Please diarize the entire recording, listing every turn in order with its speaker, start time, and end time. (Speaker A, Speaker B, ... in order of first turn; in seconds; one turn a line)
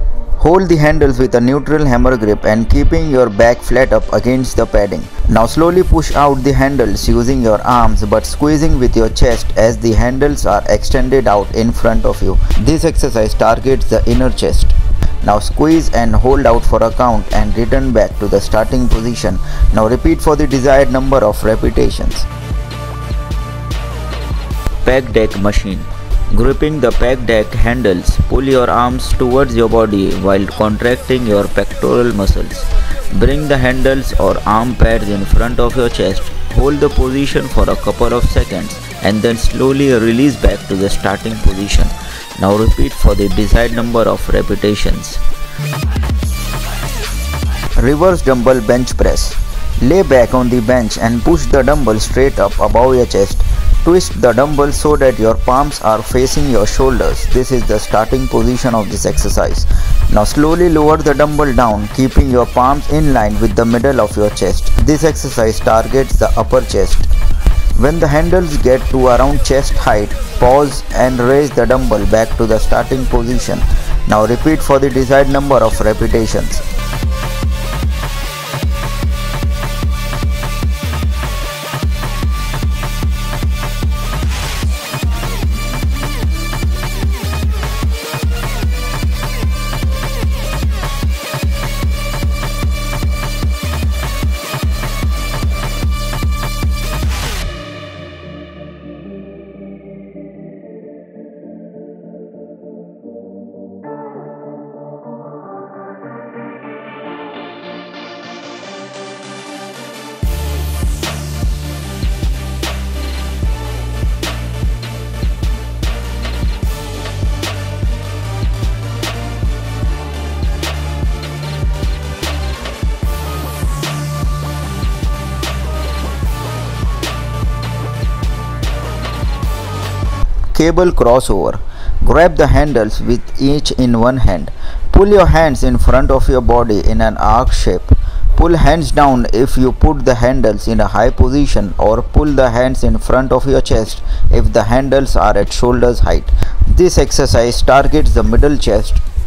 Speaker A: 0.4-22.3
Speaker A: 24.8-45.2
Speaker A: 47.8-67.1
Speaker A: 67.8-76.6
Speaker A: 130.5-149.0